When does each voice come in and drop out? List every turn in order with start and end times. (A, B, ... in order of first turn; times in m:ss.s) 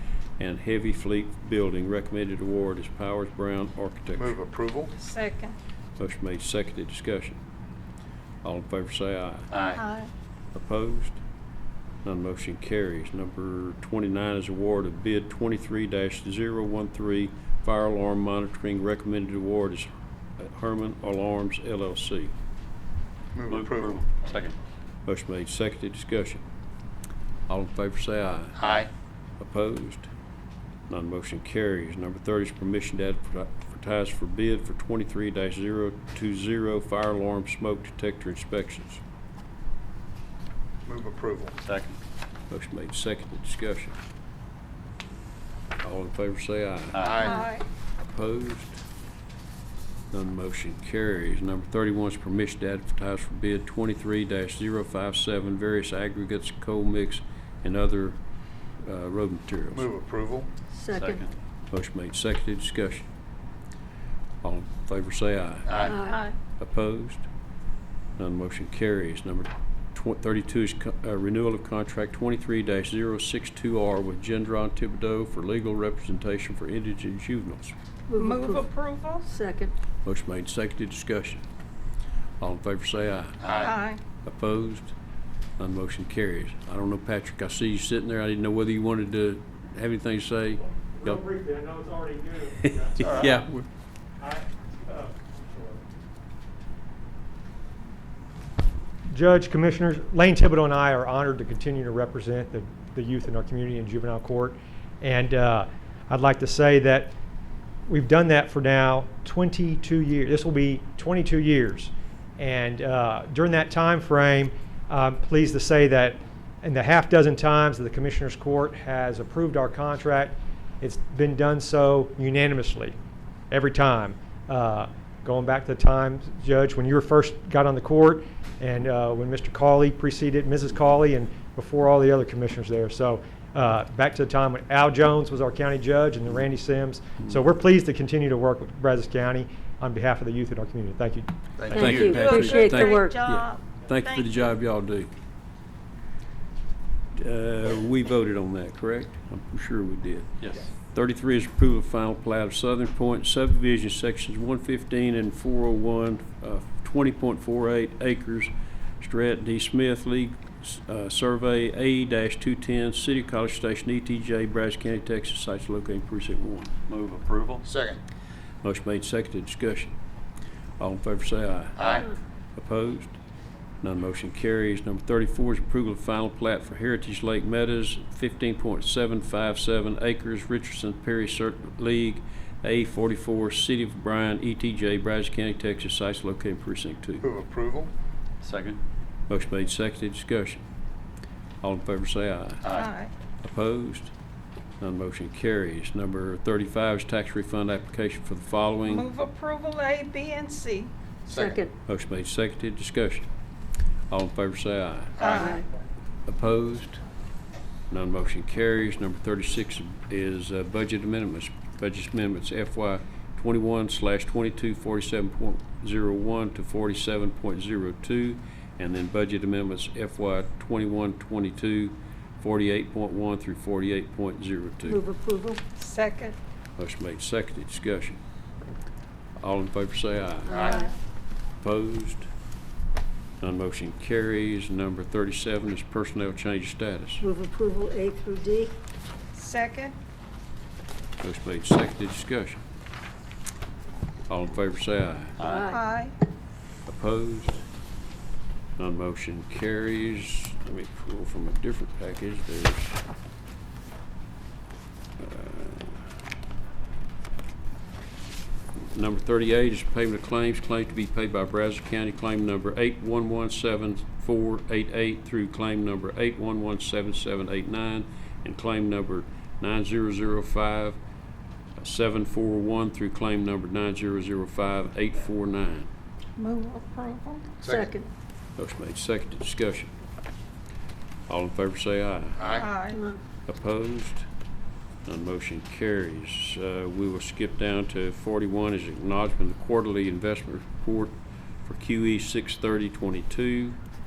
0:00.4-0:04.3 A
0:04.1-0:04.9 B
0:05.0-0:05.5 C
0:06.0-0:07.4 A
0:08.4-0:09.5 A
0:09.5-0:09.8 B
0:09.6-0:10.1 C
0:10.5-0:11.2 A
0:12.0-0:22.3 A
0:23.3-0:24.0 B
0:23.6-0:24.5 D
0:24.2-0:24.5 A
0:25.0-0:26.4 A
0:27.5-0:28.8 A
0:28.6-0:28.9 B
0:29.4-0:30.1 A
0:30.9-0:39.0 A
0:40.8-0:41.5 B
0:41.6-0:42.0 D
0:42.5-0:44.0 A
0:45.8-0:47.0 A
0:46.9-0:47.2 D
0:47.0-0:47.4 B
0:47.2-0:47.6 C
0:48.0-0:48.8 A
0:50.1-0:58.2 A
0:58.8-0:59.9 A
0:59.7-1:00.5 B
1:00.7-1:01.1 E
1:00.9-1:01.3 D
1:01.7-1:03.1 A
1:04.4-1:05.8 A
1:05.7-1:06.0 B
1:05.8-1:06.2 E
1:05.8-1:06.3 C
1:06.6-1:07.2 A
1:08.2-1:17.7 A
1:18.1-1:18.6 E
1:18.2-1:19.2 C
1:19.3-1:19.7 E
1:20.0-1:21.4 A
1:22.4-1:23.7 A
1:23.4-1:23.7 B
1:23.6-1:24.0 C
1:24.2-1:24.9 A
1:25.6-1:31.2 A
1:31.0-1:33.4 F
1:32.6-1:33.6 A
1:33.0-1:33.3 B
1:34.2-1:35.8 F
1:39.1-1:47.1 F
1:47.8-2:02.9 F
2:03.5-2:21.3 F
2:21.6-2:22.4 B
2:21.7-2:23.1 E
2:21.7-2:25.1 A
2:21.8-2:24.4 C
2:27.1-2:46.8 A
2:46.9-2:47.6 D
2:47.6-2:48.0 B
2:48.6-2:49.9 A
2:50.8-2:53.2 A
2:51.8-2:52.1 B
2:53.8-3:07.2 A
3:07.2-3:07.9 B
3:08.4-3:08.8 D
3:09.3-3:10.6 A
3:11.6-3:12.7 A
3:12.7-3:13.1 C
3:13.4-3:14.1 A
3:14.8-3:19.1 A
3:18.8-3:20.9 C
3:21.3-3:21.6 B
3:21.3-3:21.7 E
3:21.8-3:23.3 A
3:24.1-3:25.5 A
3:25.2-3:25.5 B
3:25.2-3:25.6 C
3:25.4-3:25.6 E
3:26.2-3:27.0 A
3:27.9-3:45.0 A
3:44.8-3:45.6 E
3:45.8-3:46.4 C
3:46.8-3:48.2 A
3:49.4-3:50.8 A
3:50.5-3:50.9 C
3:51.6-3:52.3 A
3:53.4-3:57.2 A
3:57.2-3:58.7 E
3:59.4-3:59.9 C
4:01.2-4:02.6 A
4:04.3-4:05.4 A
4:05.4-4:05.8 E
4:05.5-4:06.1 C
4:06.8-4:07.6 A
4:08.8-4:13.0 A
4:15.2-4:16.1 A
4:18.8-4:31.0 A
4:31.8-4:35.9 A
4:36.4-4:37.5 C
4:37.6-4:37.9 B
4:37.6-4:38.1 E
4:38.6-4:39.9 A
4:41.3-4:42.6 A
4:42.4-4:42.7 B
4:42.5-4:43.0 C
4:42.9-4:43.2 E
4:43.4-4:44.3 A
4:45.0-4:53.8 A